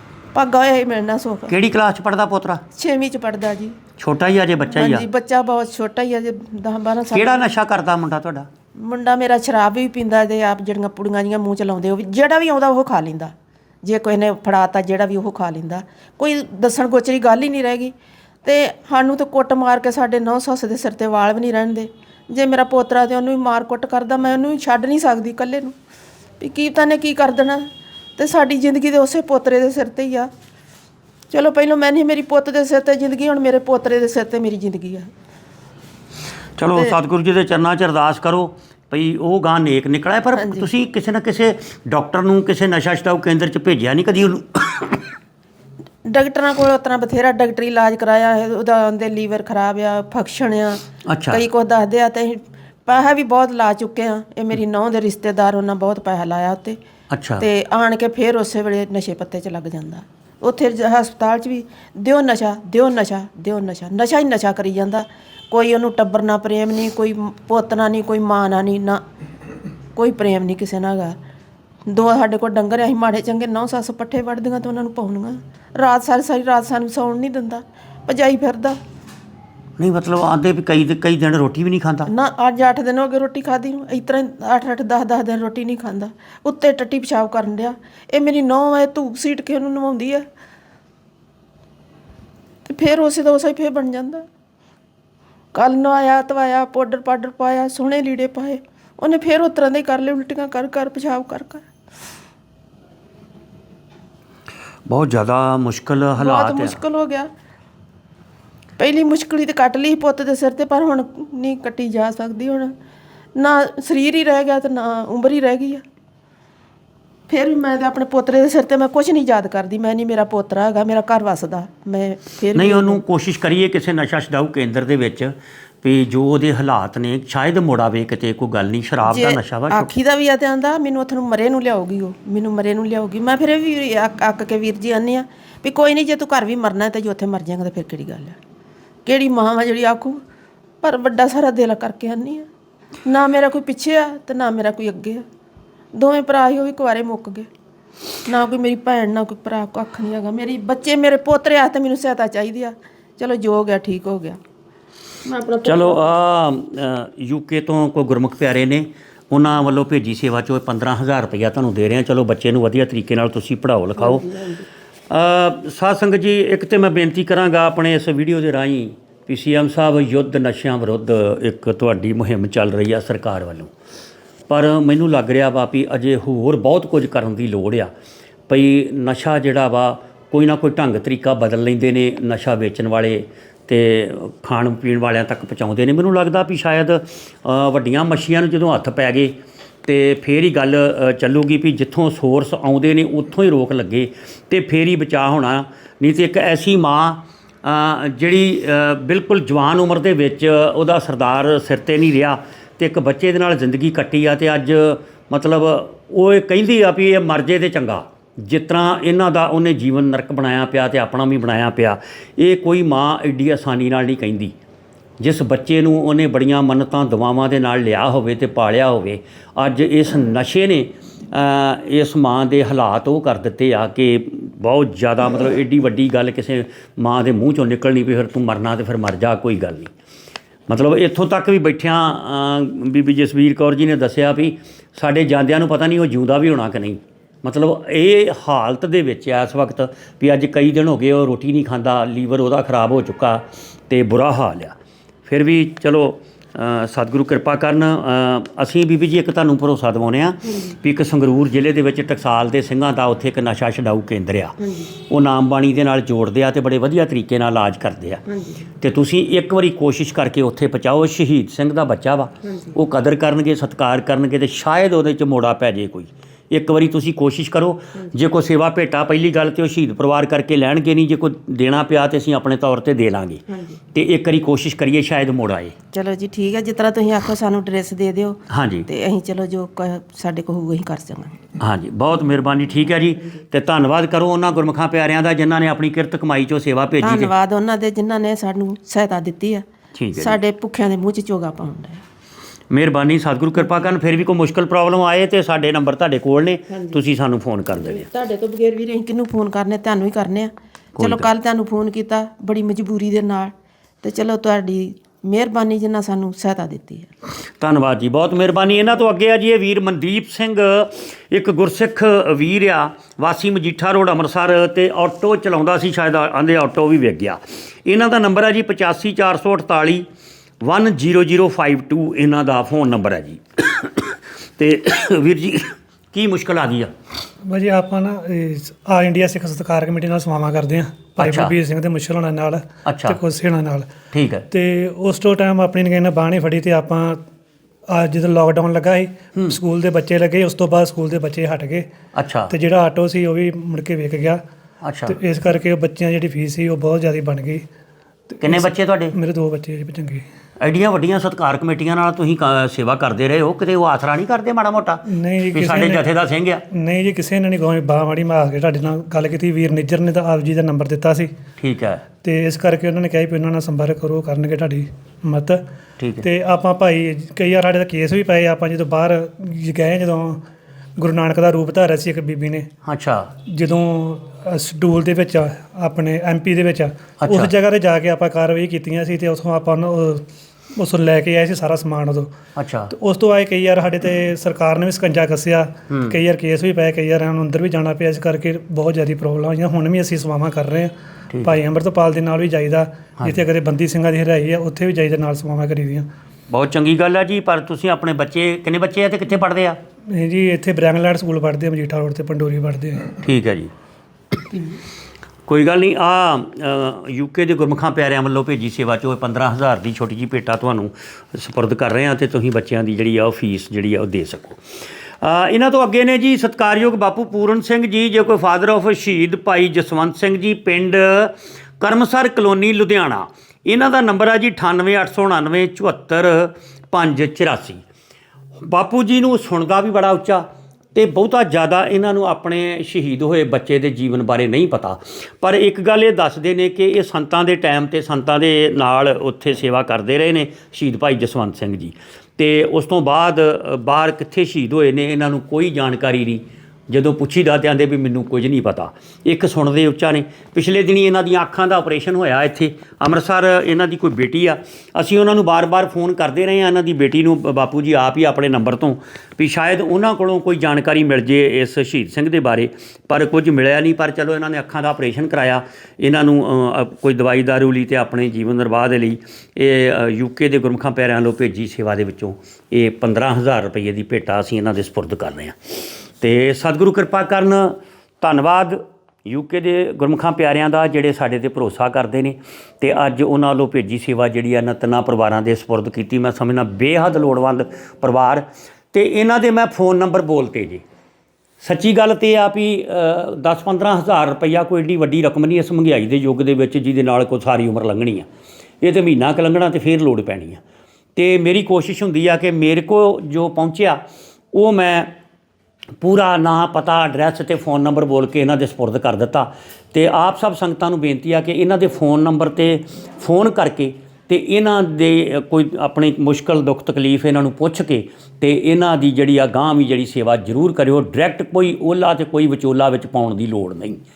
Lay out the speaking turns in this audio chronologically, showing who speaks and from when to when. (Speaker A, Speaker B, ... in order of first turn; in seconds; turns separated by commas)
Speaker A: 0.3-1.5, Speaker B: 1.5-2.6, Speaker A: 2.7-3.8, Speaker B: 4.0-5.1, Speaker A: 4.7-7.5, Speaker B: 7.1-8.5, Speaker A: 8.8-25.7, Speaker A: 26.4-30.3, Speaker A: 31.3-35.1, Speaker B: 36.6-45.0, Speaker A: 40.3-40.7, Speaker A: 46.0-56.8, Speaker B: 51.0-51.4, Speaker B: 57.1-57.5, Speaker A: 57.4-69.0, Speaker A: 70.0-71.2, Speaker A: 71.9-78.8, Speaker B: 79.8-82.1, Speaker A: 82.1-90.2, Speaker A: 92.7-94.2, Speaker A: 95.5-101.6, Speaker B: 104.9-106.8, Speaker A: 106.2-107.3, Speaker A: 108.8-112.7, Speaker A: 113.3-115.8, Speaker A: 117.3-123.0, Speaker B: 122.5-129.9, Speaker A: 129.1-138.4, Speaker A: 139.1-140.2, Speaker A: 140.8-142.5, Speaker A: 143.0-145.2, Speaker A: 145.9-147.5, Speaker A: 148.2-154.4, Speaker A: 155.2-156.1, Speaker B: 155.6-164.3, Speaker A: 164.0-164.6, Speaker B: 165.1-173.7, Speaker B: 174.5-177.9, Speaker B: 178.5-214.6, Speaker B: 215.2-229.9, Speaker B: 230.7-258.2, Speaker A: 254.6-254.9, Speaker A: 258.3-258.7, Speaker B: 258.8-275.8, Speaker A: 262.4-262.7, Speaker A: 273.5-273.8, Speaker A: 275.9-281.4, Speaker B: 278.5-278.9, Speaker B: 281.6-287.3, Speaker A: 287.0-289.6, Speaker B: 289.9-290.4, Speaker A: 290.1-292.0, Speaker B: 292.7-298.1, Speaker A: 297.8-307.1, Speaker B: 301.0-301.3, Speaker B: 307.6-320.1, Speaker B: 320.6-326.9, Speaker C: 327.4-333.9, Speaker B: 331.2-331.5, Speaker B: 332.8-333.2, Speaker B: 334.1-334.4, Speaker C: 334.5-337.2, Speaker C: 337.9-341.9, Speaker B: 342.1-342.5, Speaker C: 342.5-344.4, Speaker B: 344.8-345.2, Speaker C: 345.1-347.6, Speaker C: 348.3-350.2, Speaker B: 348.4-349.1, Speaker B: 350.6-356.6, Speaker C: 355.1-356.0, Speaker C: 356.7-361.3, Speaker B: 361.6-362.0, Speaker C: 362.2-365.6, Speaker B: 366.0-366.3, Speaker C: 366.2-370.4, Speaker C: 371.0-372.7, Speaker B: 372.8-373.3, Speaker C: 373.4-380.2, Speaker B: 377.2-377.5, Speaker C: 380.8-382.3, Speaker B: 382.6-382.9, Speaker C: 382.9-396.1, Speaker B: 385.9-386.1, Speaker B: 391.3-391.6, Speaker B: 393.2-393.4, Speaker B: 396.5-399.8, Speaker C: 400.1-403.2, Speaker B: 403.2-403.7, Speaker B: 405.4-414.6, Speaker B: 415.2-427.8, Speaker B: 428.6-475.6, Speaker B: 476.2-490.8, Speaker B: 491.6-498.3, Speaker B: 498.8-500.6, Speaker B: 501.1-504.0, Speaker B: 504.5-505.1, Speaker B: 506.0-524.0